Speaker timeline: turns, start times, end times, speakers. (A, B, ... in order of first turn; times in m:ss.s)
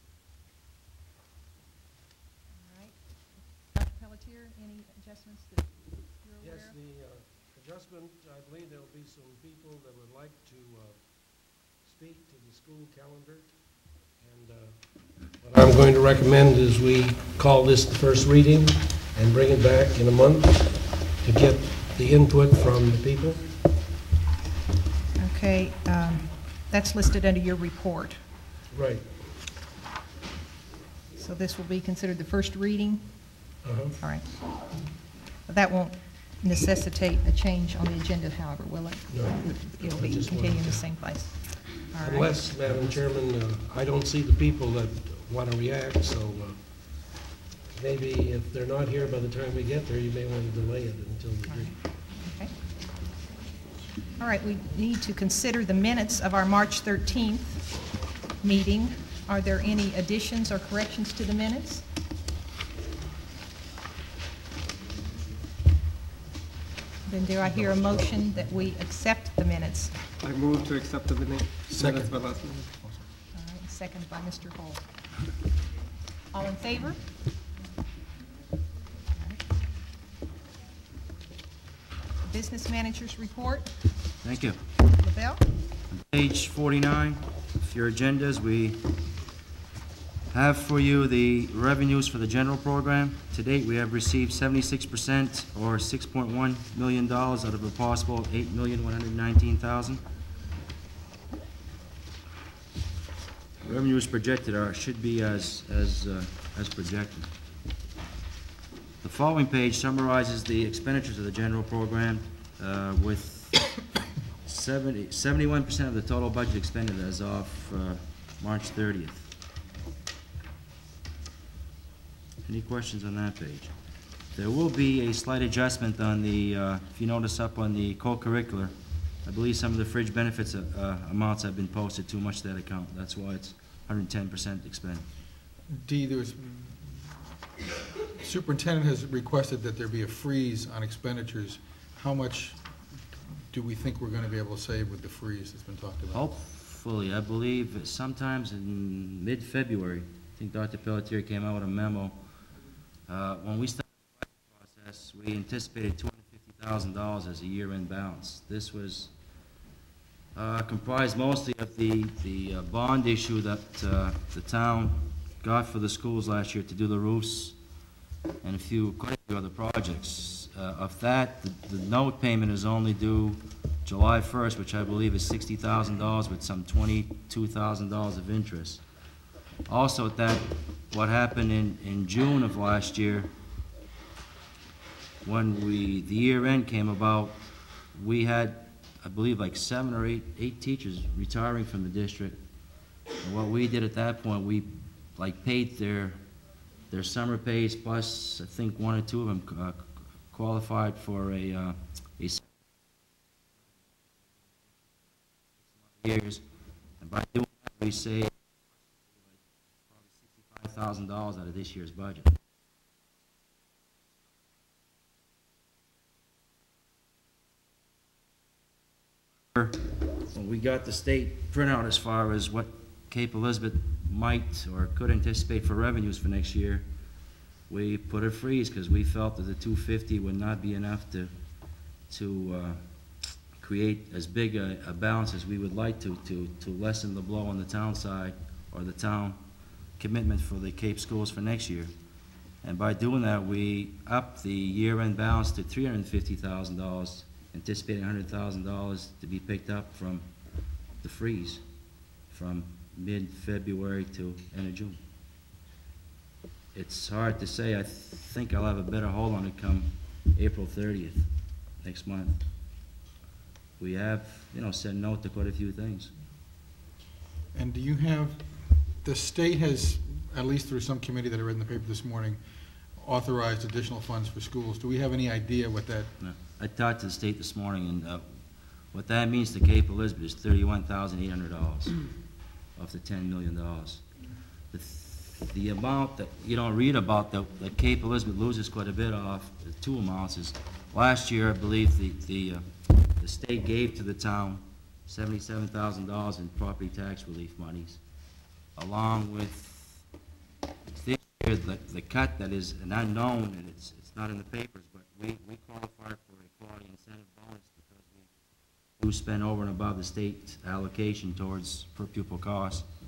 0:02.5-0:06.8 A
0:06.4-0:13.5 B
0:14.2-0:14.8 B
0:15.3-0:23.5 B
0:25.2-0:28.2 A
0:28.7-0:29.2 B
0:31.2-0:34.7 A
0:33.6-0:34.0 B
0:35.4-0:43.0 A
0:39.1-0:41.2 B
0:41.9-0:47.2 B
0:47.7-0:51.8 B
0:51.5-0:52.5 A
0:54.2-0:57.8 A
0:58.4-1:01.8 A
1:07.1-1:09.9 A
1:10.2-1:12.7 C
1:13.3-1:14.9 A
1:16.3-1:17.0 A
1:22.2-1:23.7 A
1:24.2-1:24.6 D
1:25.0-1:25.4 A
1:25.9-1:28.9 D
1:30.3-1:40.0 D
1:43.6-1:47.3 D
1:49.0-1:53.8 D
1:54.4-1:59.3 D
2:02.4-2:03.7 D
2:04.3-2:15.0 D
2:15.7-2:17.2 E
2:18.2-2:22.6 E
2:23.5-2:26.2 E
2:26.1-2:32.2 D
2:33.1-2:39.1 D
2:40.3-2:47.6 D
2:48.4-2:58.8 D
2:59.7-3:03.3 D
3:05.2-3:12.4 D
3:13.2-3:16.2 D
3:16.9-3:22.4 D
3:25.9-3:26.4 D
3:27.0-3:28.3 D
3:29.9-3:32.3 D
3:39.5-3:46.8 D
3:47.7-3:51.3 D
3:52.1-3:59.4 D
4:00.0-4:01.9 D
4:02.6-4:10.3 D
4:11.0-4:11.6 D
4:12.3-4:15.0 D
4:16.7-4:21.3 D
4:21.8-4:22.4 D
4:23.8-4:26.1 D
4:27.5-4:32.4 E
4:32.9-4:36.1 E
4:36.2-4:42.1 D
4:42.7-4:44.0 D
4:44.7-4:58.0 D
4:58.8-5:00.0 D
5:00.9-5:08.3 D
5:09.0-5:12.9 D